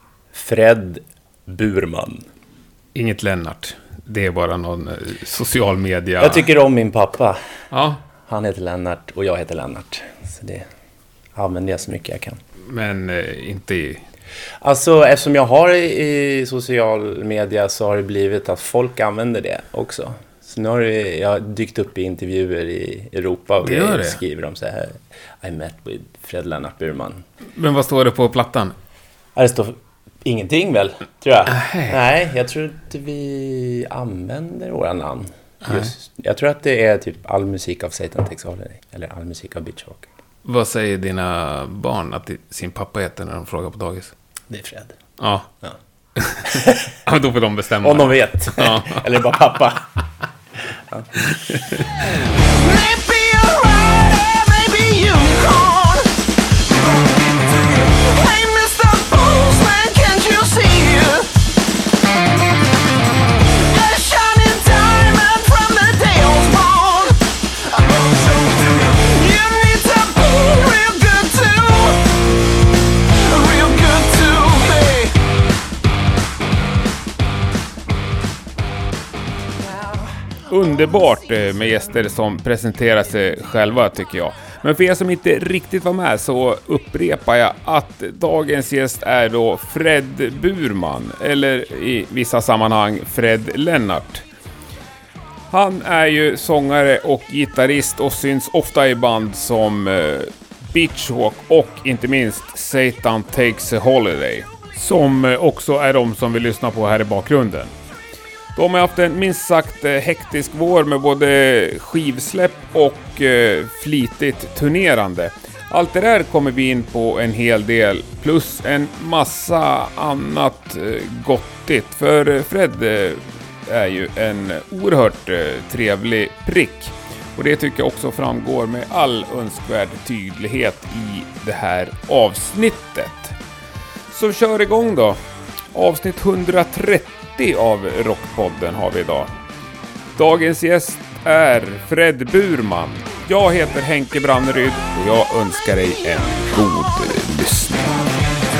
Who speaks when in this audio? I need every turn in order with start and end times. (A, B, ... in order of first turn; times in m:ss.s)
0:00.3-0:02.2 A
0:02.9-0:06.5 B
0:06.2-0:07.4 A
0:07.7-0:08.0 B
0:08.3-0:10.6 A
0:11.3-0:12.4 A
0:12.7-0:14.0 B
0:14.6-0:27.2 A
0:23.6-0:24.2 B
0:27.5-0:28.7 B
0:29.4-0:40.1 A
0:31.4-0:32.0 B
0:35.6-0:35.9 B
0:40.4-0:44.1 B
0:44.5-0:44.9 A
0:45.2-0:45.5 B
0:46.2-0:49.3 B
0:46.4-0:46.9 A
0:47.8-0:49.9 A
0:51.1-0:51.8 B
0:52.2-1:01.4 C
1:03.6-1:12.2 C
1:13.0-1:15.2 C
1:20.5-1:34.2 B
1:35.5-1:47.7 B
1:48.5-2:13.4 B
2:14.1-2:15.2 B
2:15.7-2:19.3 B
2:20.2-2:28.0 B